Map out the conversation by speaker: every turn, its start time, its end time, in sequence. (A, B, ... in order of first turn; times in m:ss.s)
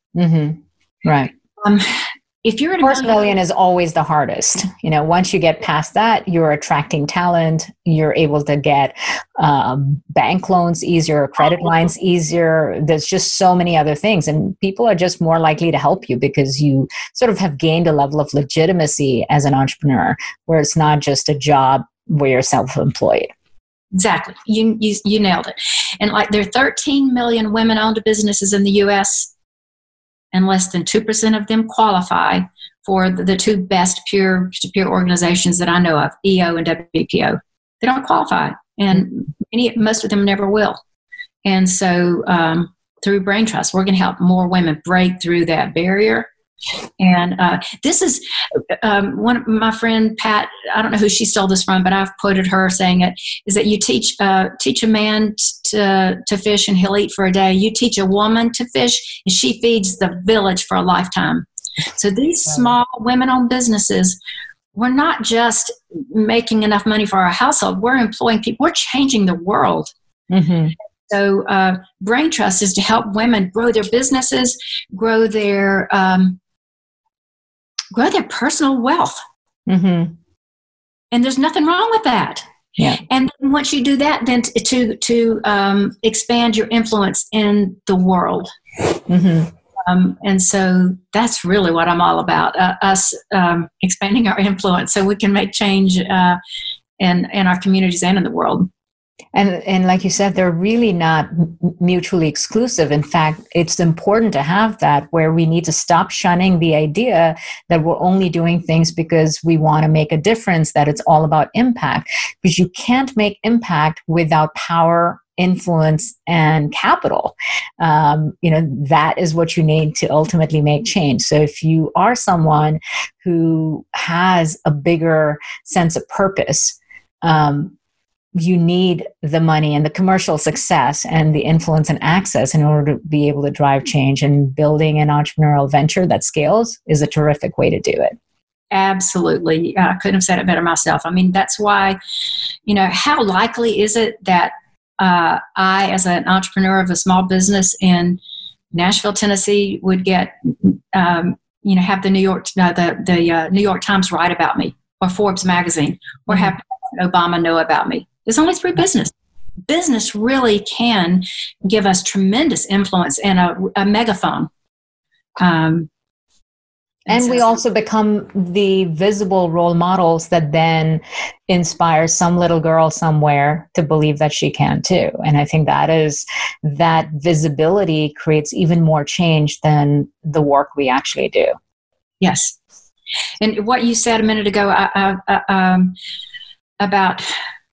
0:00.1-0:01.3 A
0:01.6-0:03.2 B
0:02.8-0:23.3 A
0:23.9-0:29.3 B
0:30.3-0:40.8 B
0:41.4-0:46.3 B
0:47.0-1:04.2 B
1:04.7-1:09.9 B
1:10.3-1:10.7 A
1:11.1-1:16.4 B
1:17.9-1:19.2 B
1:19.7-1:20.1 A
1:21.1-1:22.4 B
1:23.0-1:28.5 B
1:29.1-1:29.5 A
1:29.8-1:36.4 B
1:37.0-1:38.7 B
1:39.3-2:07.7 A
2:08.4-2:18.2 A
2:18.7-2:22.0 B
2:22.7-2:28.2 B
2:28.7-2:39.1 B
2:39.7-2:44.5 B
2:45.4-2:45.9 B
2:47.1-2:47.5 B
2:47.1-3:01.5 A
3:02.2-3:02.6 B
3:03.4-3:06.0 B
3:06.8-3:07.3 B